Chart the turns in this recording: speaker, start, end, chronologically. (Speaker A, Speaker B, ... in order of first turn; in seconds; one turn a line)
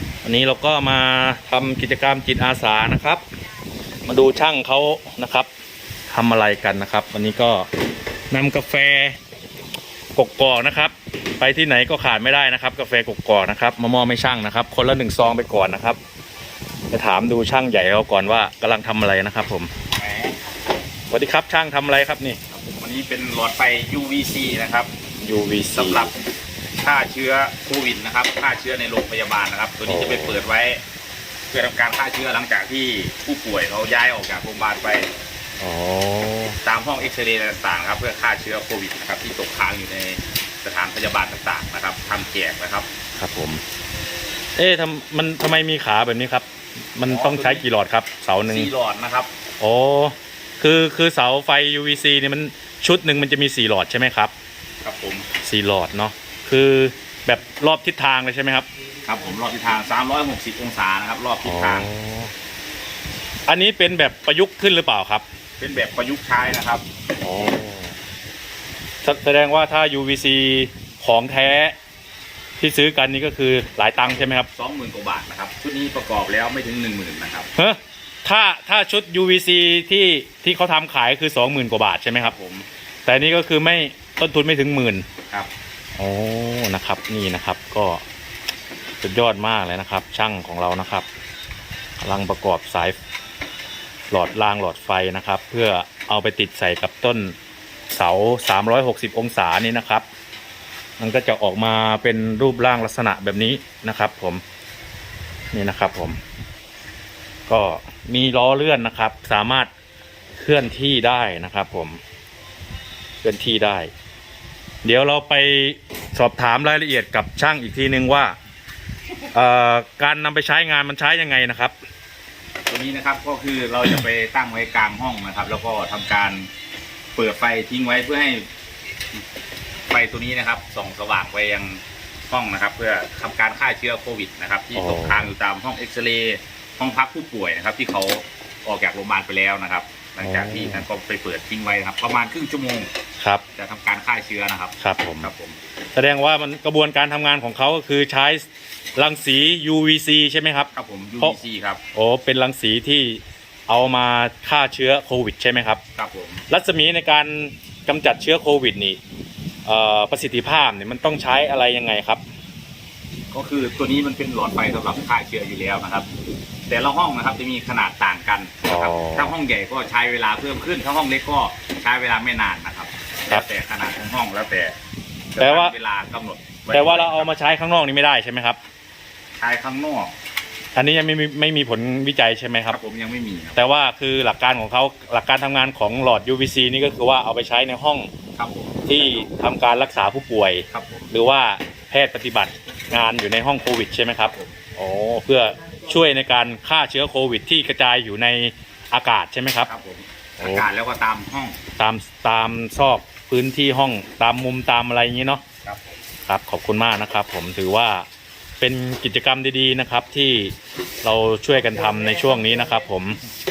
Speaker A: 0.2-3.2
Speaker A: 4.0-5.5
Speaker A: 6.1-7.7
Speaker A: 8.3-9.2
Speaker A: 10.1-16.0
Speaker A: 16.9-19.7
Speaker B: 19.9-20.4
Speaker A: 21.1-22.4
Speaker B: 22.5-24.9
Speaker A: 25.2-26.1
Speaker B: 25.7-26.1
Speaker B: 26.8-30.8
Speaker A: 29.9-30.4
Speaker B: 31.5-35.1
Speaker A: 35.6-36.6
Speaker B: 36.6-42.9
Speaker A: 43.2-43.6
Speaker A: 44.6-48.7
Speaker B: 47.1-47.6
Speaker B: 48.5-49.3
Speaker A: 49.6-54.3
Speaker B: 54.8-55.3
Speaker A: 55.4-58.7
Speaker B: 59.0-61.9
Speaker A: 61.4-62.3
Speaker A: 63.5-65.2
Speaker B: 65.6-66.8
Speaker A: 67.2-67.9
Speaker A: 69.0-71.7
Speaker A: 72.6-74.5
Speaker B: 74.5-77.5
Speaker A: 77.5-82.3
Speaker B: 82.2-82.7
Speaker A: 83.0-85.0
Speaker A: 86.0-88.0
Speaker A: 89.0-91.1
Speaker A: 92.0-93.0
Speaker A: 94.1-97.3
Speaker A: 97.9-100.0
Speaker A: 101.0-104.4
Speaker A: 105.5-106.2
Speaker A: 107.5-109.7
Speaker A: 110.3-112.0
Speaker A: 113.2-113.9
Speaker A: 114.8-118.3
Speaker A: 119.3-121.7
Speaker B: 122.7-126.5
Speaker B: 127.2-128.5
Speaker B: 129.9-142.9
Speaker A: 134.7-135.3
Speaker A: 140.2-140.9
Speaker B: 143.6-145.6
Speaker A: 144.8-145.3
Speaker A: 145.9-151.4
Speaker B: 150.7-151.8
Speaker A: 151.9-155.8
Speaker B: 156.0-156.4
Speaker A: 156.5-159.0
Speaker A: 159.7-162.2
Speaker B: 163.3-166.1
Speaker B: 166.7-174.8
Speaker A: 168.7-169.3
Speaker B: 175.3-177.3
Speaker A: 175.4-175.7
Speaker A: 176.7-178.6
Speaker B: 179.4-180.1
Speaker A: 180.7-182.8
Speaker B: 182.7-183.6
Speaker A: 183.5-188.1
Speaker B: 188.4-189.3
Speaker A: 188.9-199.7
Speaker B: 190.7-191.1
Speaker B: 199.7-201.6
Speaker A: 200.4-200.7
Speaker A: 201.8-205.4
Speaker B: 205.6-205.9
Speaker A: 206.3-208.1
Speaker A: 208.6-213.2